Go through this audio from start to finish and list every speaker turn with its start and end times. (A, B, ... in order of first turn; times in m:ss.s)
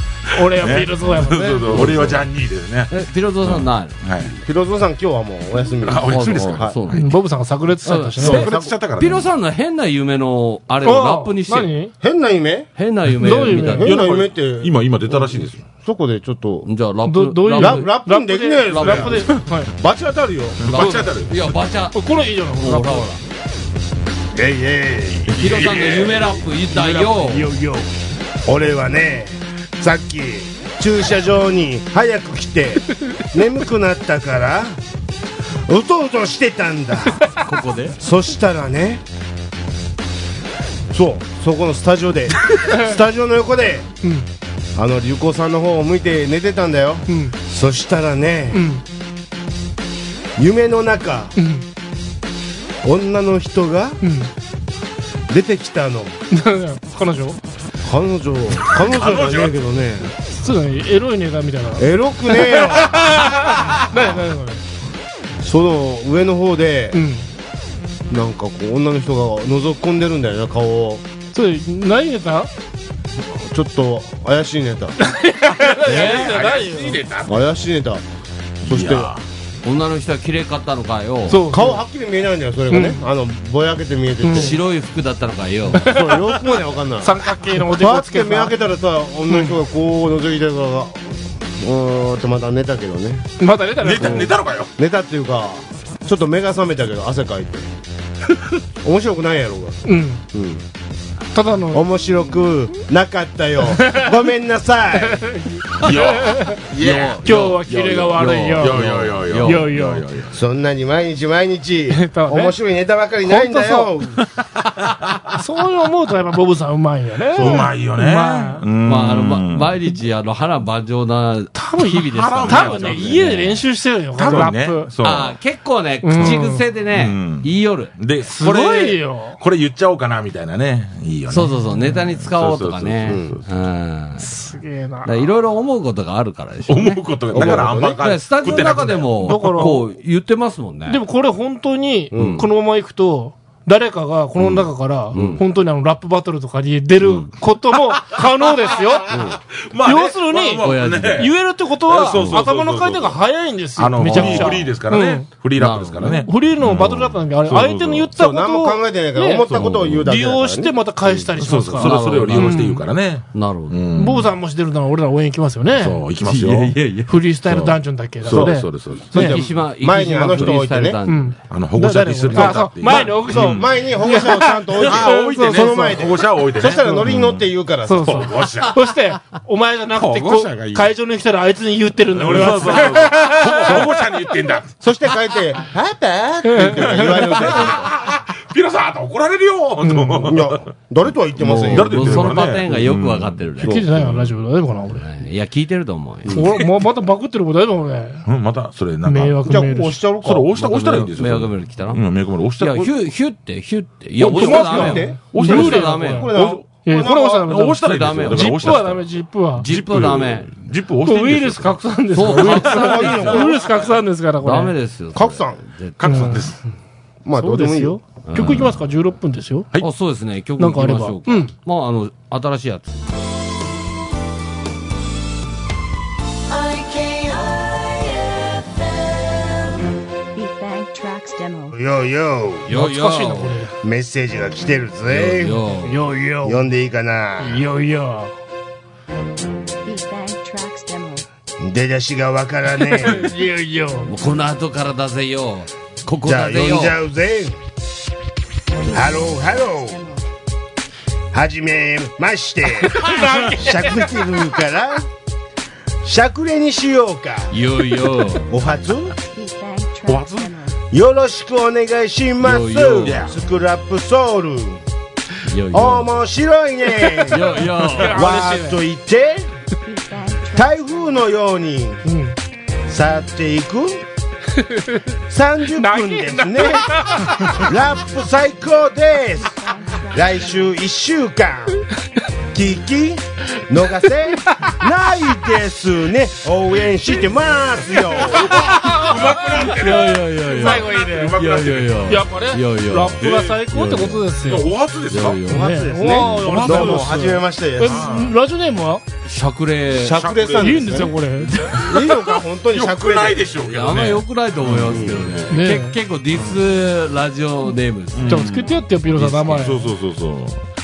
0:00.3-0:02.1 A
0:00.3-0:02.9 B
0:01.8-0:02.1 C
0:01.8-0:02.1 D
0:02.9-0:04.3 D
0:03.4-0:04.3 B
0:04.4-0:06.8 C
0:05.8-0:07.1 B
0:06.1-0:07.1 D
0:06.9-0:08.6 A
0:07.8-0:11.7 D
0:08.2-0:09.3 B
0:08.2-0:08.7 C
0:10.8-0:11.9 A
0:12.0-0:12.7 C
0:12.8-0:14.1 D
0:13.2-0:14.0 A
0:13.7-0:16.7 C
0:13.9-0:15.6 B
0:16.6-0:17.9 D
0:17.0-0:19.7 A
0:17.6-0:20.6 C
0:18.7-0:19.2 D
0:20.6-0:21.5 B
0:20.6-0:22.0 D
0:20.7-0:21.1 A
0:21.9-0:23.1 A
0:22.6-0:23.2 D
0:24.3-0:25.6 C
0:25.3-0:26.4 B
0:25.3-0:27.5 D
0:26.7-0:27.9 A
0:28.4-0:34.8 C
0:35.7-0:37.3 C
0:37.4-0:38.0 D
0:38.0-0:39.0 C
0:40.9-0:43.9 C
0:44.8-0:48.6 C
0:47.1-0:47.3 A
0:48.5-0:48.8 A
0:50.4-0:51.4 C
0:51.4-0:51.6 A
0:52.8-0:54.0 C
0:54.0-0:54.3 A
0:55.3-0:56.1 C
0:56.3-0:57.4 A
0:57.8-1:00.1 C
0:58.8-0:59.5 B
1:00.3-1:04.6 A
1:01.8-1:03.1 C
1:05.4-1:07.0 C
1:06.9-1:07.2 A
1:08.1-1:11.0 C
1:11.3-1:12.5 A
1:13.4-1:15.0 C
1:15.0-1:17.0 A
1:15.6-1:17.5 B
1:15.9-1:16.3 D
1:17.2-1:18.0 C
1:18.6-1:19.1 C
1:18.7-1:19.2 B
1:19.6-1:21.4 D
1:21.3-1:21.8 A
1:21.5-1:24.6 C
1:22.7-1:23.0 A
1:24.2-1:24.6 A
1:24.3-1:25.9 D
1:25.7-1:28.6 A
1:25.7-1:33.2 C
1:29.3-1:29.6 A
1:33.4-1:34.3 A
1:33.8-1:34.7 B
1:34.0-1:37.7 C
1:38.8-1:39.8 C
1:39.8-1:40.2 A
1:40.3-1:40.6 C
1:41.3-1:41.8 A
1:41.7-1:45.3 C
1:43.7-1:44.2 A
1:45.0-1:46.6 A
1:45.8-1:50.3 B
1:46.8-1:49.7 D
1:47.2-1:50.0 A
1:50.3-1:54.2 C
1:51.9-1:52.6 A
1:53.2-1:53.9 A
1:54.6-1:55.2 B
1:55.3-1:58.6 A
1:57.4-1:59.7 B
1:58.8-2:03.6 D
2:01.6-2:04.9 A
2:01.9-2:03.2 B
2:04.2-2:05.4 B
2:05.0-2:07.9 D
2:06.0-2:06.6 A
2:06.9-2:13.4 B
2:08.2-2:09.4 A
2:11.3-2:14.3 D
2:13.0-2:13.4 C
2:14.2-2:15.1 A
2:15.0-2:21.0 D
2:16.7-2:19.7 B
2:17.3-2:18.0 C
2:18.6-2:19.8 A
2:20.9-2:29.2 A
2:22.1-2:22.5 C
2:22.1-2:22.5 D
2:25.1-2:25.4 D
2:27.0-2:27.3 D
2:29.1-2:29.4 C
2:29.1-2:31.3 B
2:29.8-2:35.3 A
2:30.6-2:31.3 D
2:31.8-2:33.2 B
2:32.1-2:32.4 D
2:33.8-2:38.1 B
2:34.1-2:34.6 D
2:35.6-2:36.2 D
2:36.0-2:42.8 A
2:38.2-2:41.2 C
2:39.5-2:40.0 B
2:41.4-2:44.3 B
2:41.8-2:42.6 D
2:43.3-2:43.8 D
2:44.0-2:46.0 A
2:45.8-2:46.8 B
2:46.2-2:47.6 D
2:47.1-2:49.4 A
2:48.2-2:49.1 B
2:48.3-2:51.0 C
2:49.1-2:51.4 D
2:51.1-2:56.1 A
2:51.5-2:54.0 B
2:52.3-2:58.3 C
2:54.8-2:57.4 B
2:56.6-2:57.0 A
2:57.9-3:04.0 A
2:58.0-2:58.8 B
3:00.0-3:00.9 B
3:02.1-3:04.7 B
3:04.8-3:07.9 C
3:06.4-3:07.6 A
3:06.8-3:10.6 B
3:09.8-3:10.4 A
3:10.2-3:12.4 C
3:11.4-3:13.8 D
3:11.7-3:13.4 B
3:13.6-3:13.9 C
3:13.6-3:15.0 A
3:14.0-3:14.3 B
3:14.9-3:16.4 D
3:16.3-3:18.2 A
3:18.2-3:19.6 B
3:19.0-3:20.0 A
3:19.4-3:21.1 C
3:20.2-3:22.9 B
3:20.9-3:22.0 D
3:22.6-3:26.3 D
3:24.2-3:26.6 B
3:24.2-3:29.6 A
3:24.4-3:27.5 C
3:27.4-3:29.0 B
3:27.8-3:28.9 D
3:29.6-3:30.5 D
3:29.6-3:31.8 B
3:31.0-3:34.7 A
3:32.1-3:33.5 D
3:32.4-3:33.6 C
3:32.4-3:33.0 B
3:34.4-3:36.4 D
3:35.1-3:35.6 C
3:36.0-3:36.6 B
3:36.0-3:36.5 A
3:37.2-3:38.0 C
3:37.4-3:39.7 A
3:38.3-3:38.7 D
3:39.8-3:42.9 D
3:40.6-3:41.5 A
3:46.6-3:48.2 E
3:50.4-3:51.8 E
3:51.7-3:52.7 C
3:52.7-3:53.6 D
3:52.7-3:53.7 A
3:53.8-3:55.6 C
3:55.0-3:56.0 D
3:55.8-3:56.6 A
3:56.4-3:57.6 C
3:57.4-3:58.3 A
3:59.8-4:01.3 E
4:01.6-4:03.3 C
4:02.9-4:04.1 A
4:04.0-4:07.0 D
4:06.2-4:07.6 C
4:08.8-4:10.2 E
4:08.9-4:10.0 C
4:11.3-4:15.1 C
4:12.8-4:14.1 A
4:13.1-4:13.5 B
4:16.0-4:17.6 C
4:17.5-4:18.5 D
4:18.5-4:19.1 C
4:19.3-4:20.8 E
4:20.1-4:20.5 B
4:20.9-4:24.8 C
4:22.4-4:23.2 D
4:23.0-4:23.4 B
4:25.4-4:26.1 D
4:25.7-4:29.5 C
4:27.1-4:28.8 A
4:27.3-4:28.2 D
4:29.8-4:30.8 E
4:30.5-4:32.0 C
4:32.0-4:32.4 A
4:32.9-4:34.0 C
4:34.6-4:35.0 A
4:35.3-4:41.8 C
4:35.7-4:37.7 A
4:39.6-4:40.7 E
4:42.5-4:48.7 C
4:44.4-4:44.8 A
4:48.0-4:51.4 A
4:48.3-4:52.1 B
4:49.7-4:54.2 D
4:52.1-4:54.7 A
4:53.2-4:53.6 B
4:54.4-4:55.4 B
4:55.1-4:55.8 D
4:55.4-4:58.1 C
4:55.5-4:59.0 A
4:56.2-4:57.1 B
4:57.8-4:58.4 B
4:59.2-5:00.2 D
4:59.9-5:01.1 C
5:00.1-5:01.0 B
5:00.6-5:02.2 A
5:01.6-5:02.0 B
5:01.7-5:03.4 C
5:02.7-5:05.4 B
5:03.6-5:08.5 D
5:04.8-5:05.2 C
5:05.5-5:06.0 A
5:08.1-5:08.8 B
5:08.3-5:09.9 A
5:09.1-5:09.7 D
5:09.4-5:10.6 B